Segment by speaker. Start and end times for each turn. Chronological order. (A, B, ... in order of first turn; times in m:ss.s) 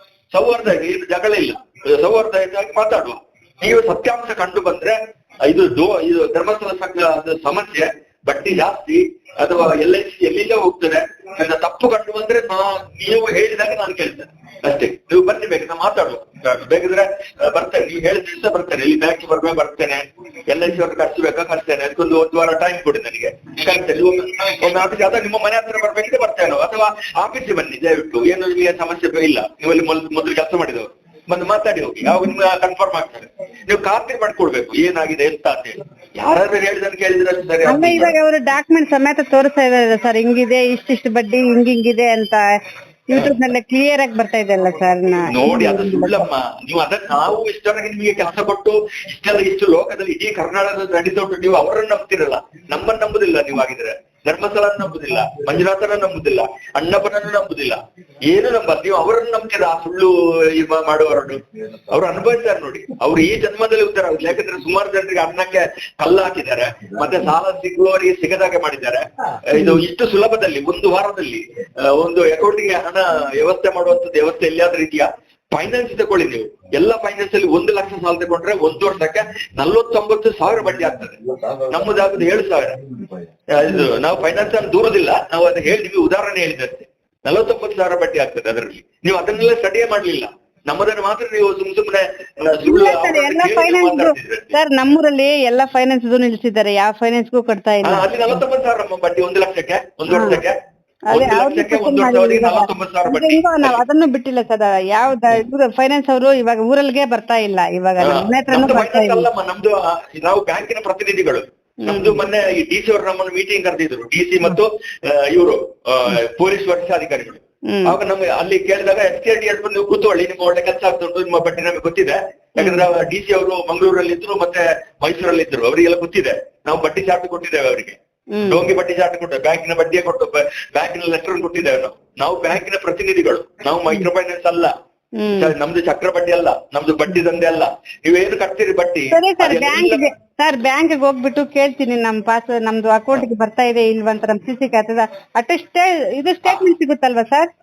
0:00.3-0:38.1 A
0:32.0-0:32.3 B
0:37.7-0:42.4 B
0:43.1-0:46.3 B
0:45.3-1:22.8 A
1:09.6-1:09.8 B
1:23.5-1:34.6 A
1:32.6-1:38.4 B
1:37.8-1:40.6 A
1:40.1-1:40.4 B
1:41.1-1:43.8 A
1:41.1-1:49.3 B
1:48.0-2:14.7 A
1:51.8-1:52.2 B
1:57.7-1:58.0 B
2:02.6-2:02.9 B
2:08.3-2:08.6 B
2:15.2-2:15.5 B
2:15.4-2:20.0 A
2:19.1-2:27.5 B